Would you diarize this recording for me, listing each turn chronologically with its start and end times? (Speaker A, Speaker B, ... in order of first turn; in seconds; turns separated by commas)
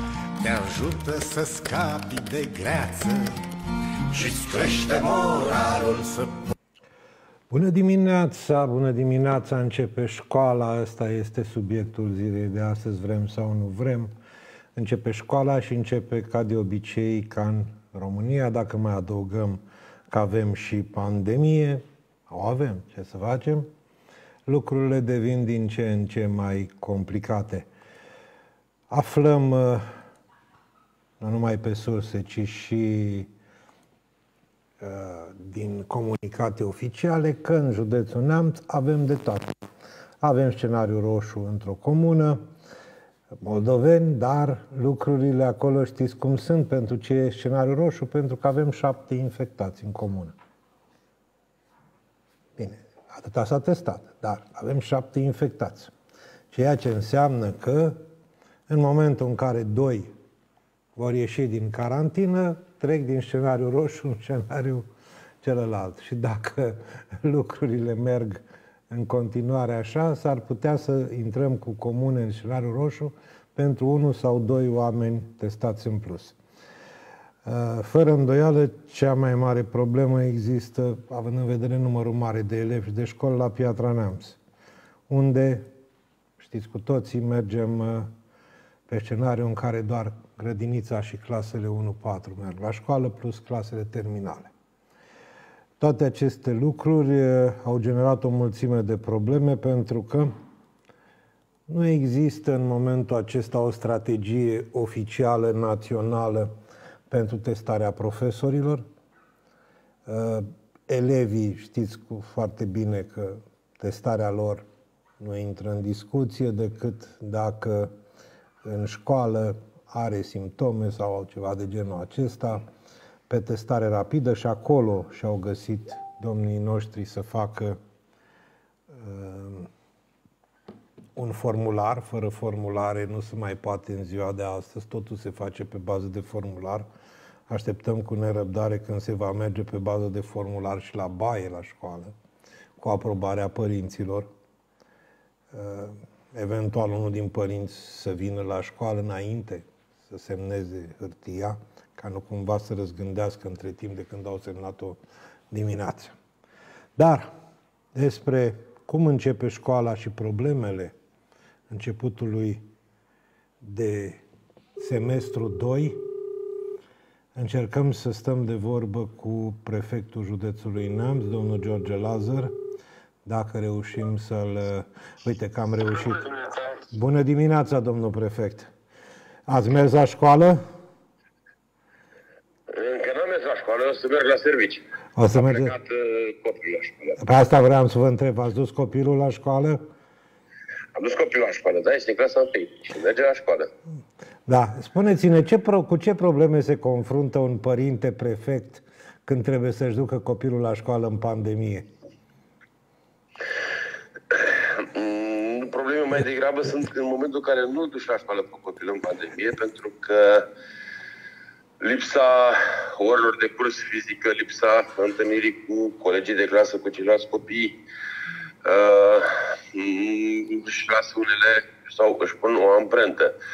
Speaker A: 0.4-3.4, Speaker A: 4.1-6.4, Speaker B: 7.5-14.1, Speaker B: 14.8-23.7, Speaker B: 24.5-27.7, Speaker B: 28.9-29.9, Speaker B: 31.2-33.3, Speaker B: 34.8-39.5, Speaker B: 40.2-42.4, Speaker B: 43.4-50.4, Speaker B: 52.6-55.9, Speaker B: 56.5-58.0, Speaker B: 58.7-60.1, Speaker B: 61.0-64.9, Speaker B: 65.4-76.4, Speaker B: 77.5-84.4, Speaker B: 85.1-85.7, Speaker B: 86.4-88.1, Speaker B: 88.9-94.5, Speaker B: 95.8-100.3, Speaker B: 101.7-106.5, Speaker B: 107.1-108.8, Speaker B: 110.1-114.6, Speaker B: 115.2-117.9, Speaker B: 118.6-122.6, Speaker B: 123.3-127.8, Speaker B: 128.9-129.7, Speaker B: 131.2-136.9, Speaker B: 137.5-142.1, Speaker B: 142.8-144.3, Speaker B: 145.5-155.0, Speaker B: 155.5-156.2, Speaker B: 157.0-157.3, Speaker B: 157.9-160.9, Speaker B: 161.7-162.6, Speaker B: 163.6-164.2, Speaker B: 164.8-166.0, Speaker B: 167.3-172.5, Speaker B: 173.2-176.3, Speaker C: 176.3-176.7, Speaker B: 176.9-178.7, Speaker B: 179.5-180.6, Speaker C: 182.7-184.8, Speaker B: 185.2-185.7, Speaker C: 185.3-187.2, Speaker B: 187.2-189.8, Speaker C: 190.9-193.7, Speaker B: 194.5-201.9, Speaker C: 204.3-210.5, Speaker C: 211.8-217.8, Speaker C: 218.7-223.3